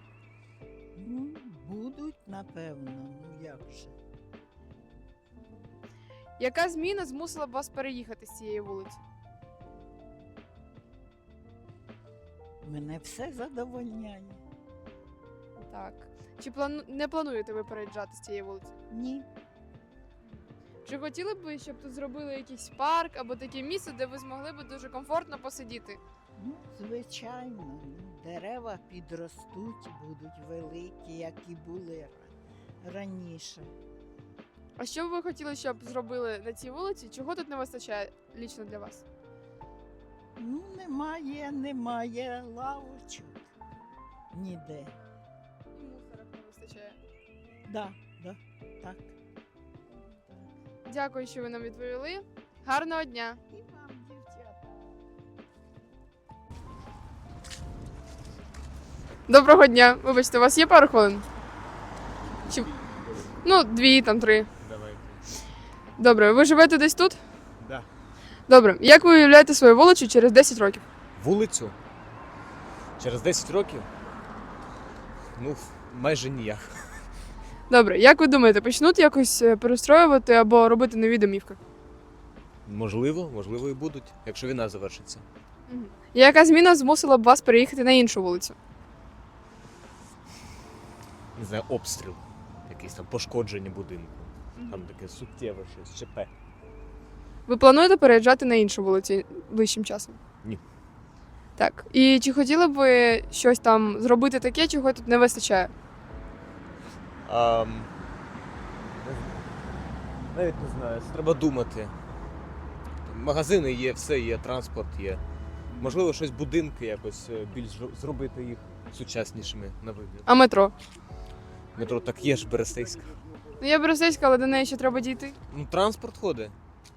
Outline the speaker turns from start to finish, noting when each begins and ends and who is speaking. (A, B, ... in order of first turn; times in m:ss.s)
0:01.0-0:03.9 A
0:06.4-0:09.0 B
0:12.6-0:14.4 A
0:15.6-0:18.7 B
0:18.9-0:19.3 A
0:20.8-0:26.0 B
0:26.4-0:33.7 A
0:34.8-0:39.0 B
0:40.4-0:43.4 A
0:44.3-0:44.9 A
0:45.7-0:47.0 B
0:47.7-0:49.1 A
0:50.0-0:50.5 A
0:50.8-0:53.4 B
0:53.5-0:55.0 A
0:59.3-1:01.2 B
1:03.4-1:04.5 B
1:04.6-1:05.2 C
1:06.0-1:07.2 B
1:07.6-1:07.9 C
1:08.5-1:10.8 B
1:11.2-1:11.7 C
1:13.0-1:13.9 C
1:15.4-1:16.7 C
1:17.7-1:21.6 B
1:22.7-1:25.2 C
1:25.7-1:28.6 B
1:31.4-1:36.3 C
1:34.6-1:34.8 B
1:37.5-1:40.2 B
1:41.6-1:45.7 B
1:47.2-1:47.9 C
1:49.0-1:49.3 C
1:50.3-1:51.9 C
1:53.1-1:55.2 C
1:55.8-2:00.3 C
2:00.3-2:00.7 B
2:01.7-2:03.2 C
2:03.6-2:05.3 B
2:05.5-2:06.6 C